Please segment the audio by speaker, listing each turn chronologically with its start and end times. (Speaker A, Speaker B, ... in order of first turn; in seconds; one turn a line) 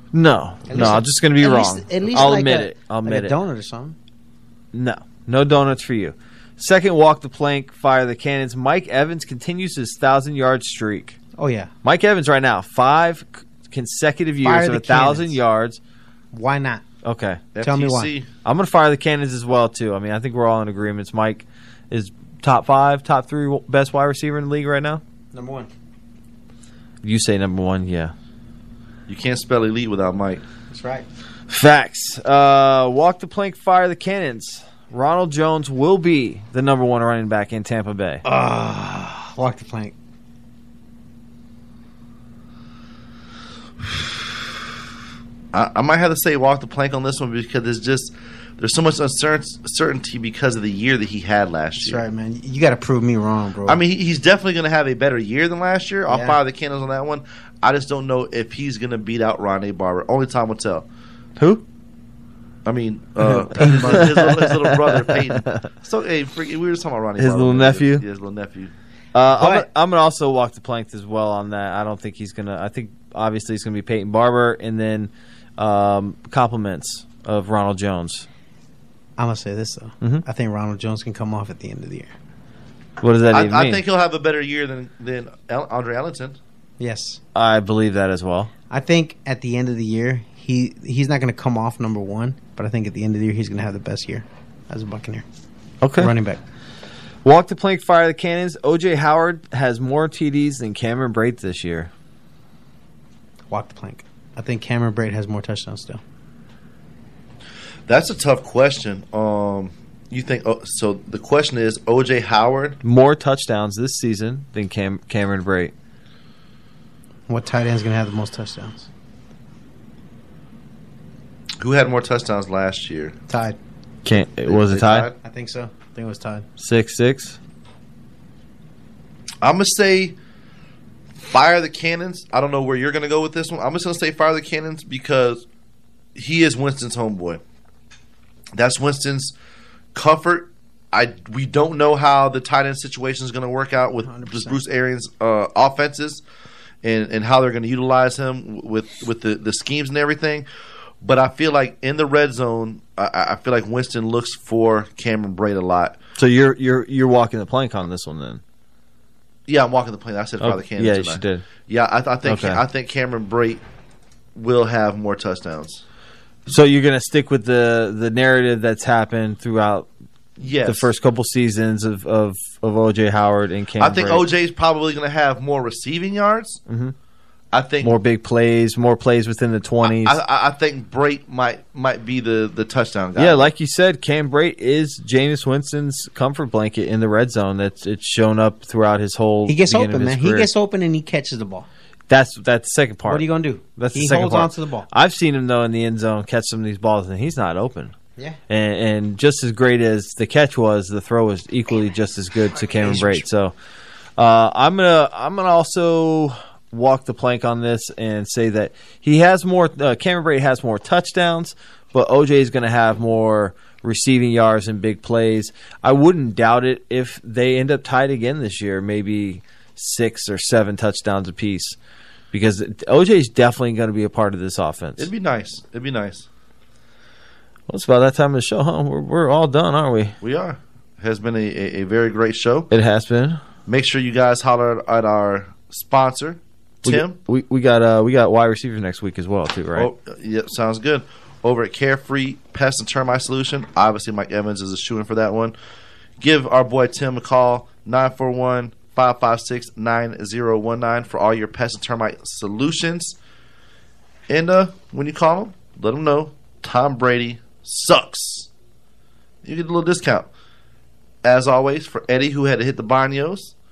Speaker A: 0.1-3.4
Speaker B: 0.7-4.0
Speaker A: 4.7-11.2
Speaker B: 11.4-11.7
Speaker A: 11.8-15.8
Speaker B: 14.4-15.4
Speaker B: 16.3-16.8
Speaker A: 17.0-17.4
Speaker C: 17.5-18.3
Speaker B: 17.6-18.1
Speaker A: 18.4-25.0
Speaker B: 25.3-25.7
Speaker A: 27.0-28.1
Speaker C: 29.1-30.4
Speaker B: 30.7-31.1
Speaker A: 31.5-38.2
Speaker B: 38.2-39.9
Speaker C: 45.5-52.0
Speaker B: 51.8-53.8
Speaker C: 53.7-60.9
Speaker B: 56.1-56.4
Speaker A: 61.4-61.6
Speaker C: 62.7-68.7
Speaker A: 63.2-65.7
Speaker B: 63.6-64.3
Speaker A: 67.2-68.0
Speaker A: 69.1-78.3
Speaker B: 69.3-69.7
Speaker B: 79.2-82.1
Speaker A: 83.0-83.8
Speaker C: 83.3-86.4
Speaker B: 86.8-87.2
Speaker A: 87.3-88.5
Speaker B: 88.7-95.2
Speaker A: 95.8-96.1
Speaker B: 96.0-96.4
Speaker A: 97.2-101.9
Speaker B: 103.5-106.0
Speaker C: 107.9-112.8
Speaker A: 112.8-115.7
Speaker B: 117.3-118.9
Speaker C: 121.6-123.2
Speaker B: 123.3-123.6
Speaker A: 124.0-125.1
Speaker C: 124.5-125.2
Speaker B: 125.2-126.5
Speaker A: 126.6-127.4
Speaker C: 129.4-130.2
Speaker C: 131.2-135.4
Speaker C: 136.2-137.4
Speaker C: 138.6-139.3
Speaker C: 139.9-146.2
Speaker B: 144.0-144.6
Speaker C: 146.8-150.5
Speaker C: 151.0-156.0
Speaker A: 156.2-158.4
Speaker C: 159.5-163.6
Speaker A: 160.4-161.4
Speaker A: 162.2-162.6
Speaker C: 164.3-165.8
Speaker A: 166.5-169.9
Speaker C: 170.4-170.9
Speaker A: 170.6-174.3
Speaker C: 173.8-176.6
Speaker A: 176.7-176.9
Speaker C: 177.5-178.0
Speaker A: 177.8-180.2
Speaker C: 179.8-183.5
Speaker A: 183.2-190.5
Speaker B: 189.5-191.7
Speaker A: 192.1-197.9
Speaker B: 193.1-194.9
Speaker A: 198.5-203.5
Speaker B: 202.7-203.2
Speaker A: 204.2-221.8
Speaker A: 222.3-225.1
Speaker C: 225.0-226.3
Speaker A: 227.7-230.2
Speaker C: 230.2-232.7
Speaker A: 232.7-233.4
Speaker C: 233.7-237.2
Speaker A: 236.8-239.9
Speaker C: 239.8-245.6
Speaker C: 246.2-253.2
Speaker C: 254.3-258.5
Speaker C: 259.4-260.3
Speaker C: 261.2-263.5